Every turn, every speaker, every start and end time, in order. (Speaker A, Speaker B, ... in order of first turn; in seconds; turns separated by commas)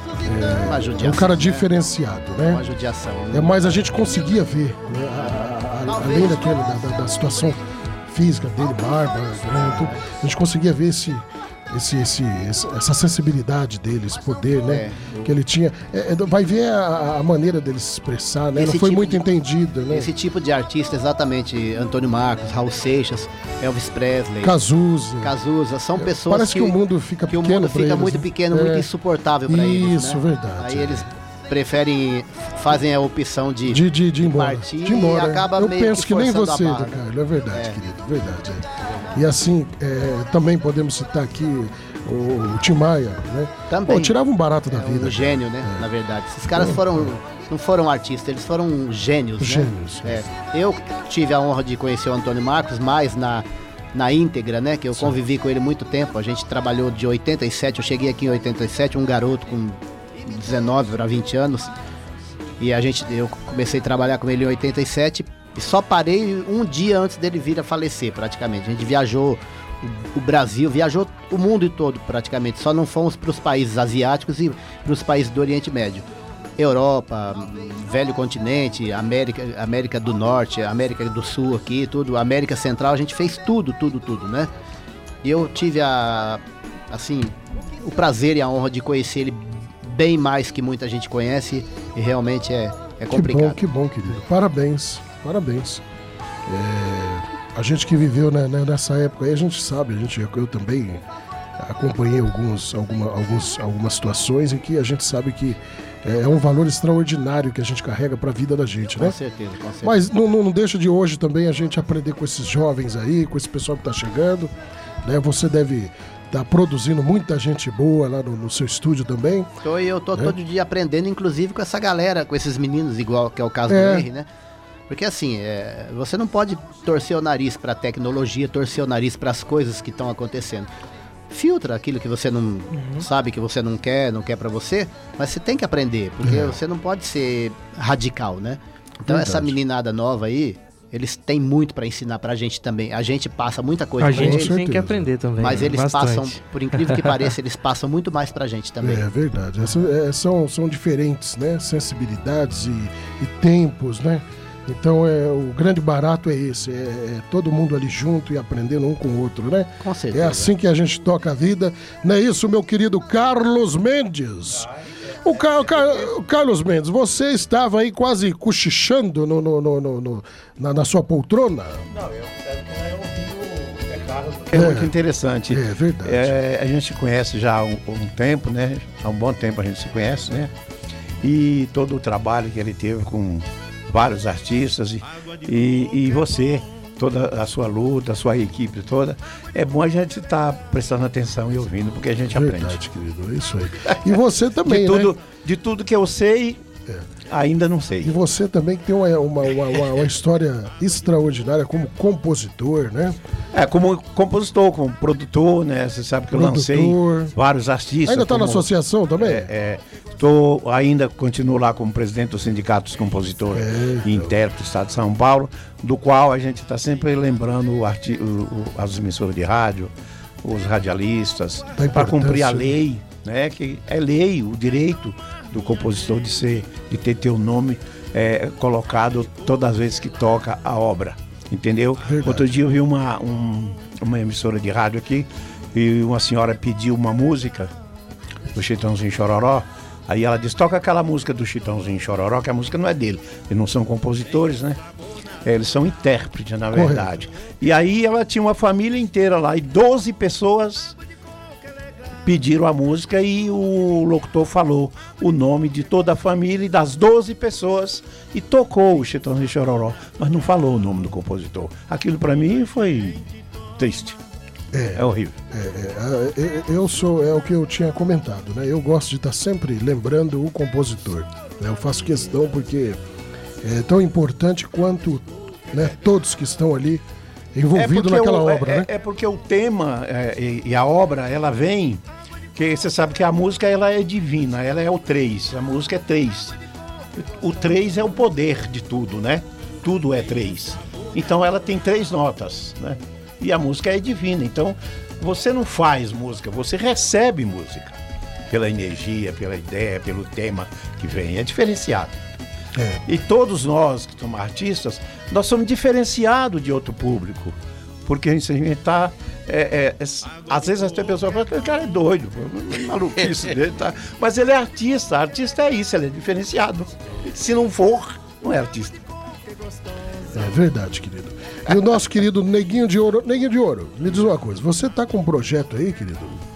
Speaker A: 0.2-2.6, Speaker B: 0.3-1.7, Speaker B: 2.5-3.7, Speaker A: 3.3-20.1, Speaker B: 5.2-6.8, Speaker B: 9.4-10.0, Speaker B: 14.7-15.3, Speaker B: 18.6-19.2, Speaker B: 19.9-24.6, Speaker A: 24.4-25.3, Speaker B: 25.2-26.7, Speaker A: 25.9-28.9, Speaker B: 27.3-37.0, Speaker A: 29.5-31.1, Speaker A: 33.7-45.8, Speaker B: 37.5-37.8, Speaker B: 43.7-44.1, Speaker B: 44.7-61.7, Speaker A: 46.5-47.1, Speaker A: 49.4-50.3, Speaker B: 62.6-76.1, Speaker B: 76.6-84.5, Speaker B: 85.2-93.6, Speaker A: 93.1-95.8, Speaker A: 96.5-101.0, Speaker A: 101.6-109.2, Speaker B: 108.9-110.0, Speaker A: 109.8-114.5, Speaker A: 115.0-119.5, Speaker B: 119.6-124.3, Speaker A: 123.7-124.1, Speaker B: 124.9-130.7, Speaker B: 131.3-144.5, Speaker A: 136.2-136.6, Speaker A: 139.1-139.6, Speaker C: 144.0-147.1, Speaker A: 144.1-145.1, Speaker B: 145.4-149.0, Speaker A: 148.8-164.7, Speaker B: 159.8-160.5, Speaker A: 165.2-171.8, Speaker D: 173.9-180.5, Speaker A: 174.5-174.9, Speaker A: 175.5-176.3, Speaker D: 181.2-192.8, Speaker A: 192.3-195.1, Speaker D: 194.6-196.6, Speaker D: 197.3-198.1, Speaker A: 198.0-203.2, Speaker D: 203.5-208.6, Speaker A: 206.3-207.3, Speaker A: 208.1-209.5, Speaker D: 209.2-219.9, Speaker A: 213.5-214.3, Speaker D: 220.4-237.7, Speaker A: 221.8-222.8, Speaker A: 232.0-232.5, Speaker D: 238.5-244.8, Speaker D: 245.4-250.9, Speaker A: 246.7-247.1, Speaker D: 252.2-263.2, Speaker D: 263.8-264.2, Speaker A: 264.7-273.0, Speaker D: 264.9-265.3, Speaker A: 273.6-277.0, Speaker A: 277.5-278.9, Speaker D: 277.7-282.0, Speaker D: 282.6-286.6, Speaker D: 287.2-297.9, Speaker D: 298.5-302.2, Speaker A: 302.8-303.0, Speaker D: 303.1-307.5, Speaker D: 308.1-319.0, Speaker A: 320.3-326.4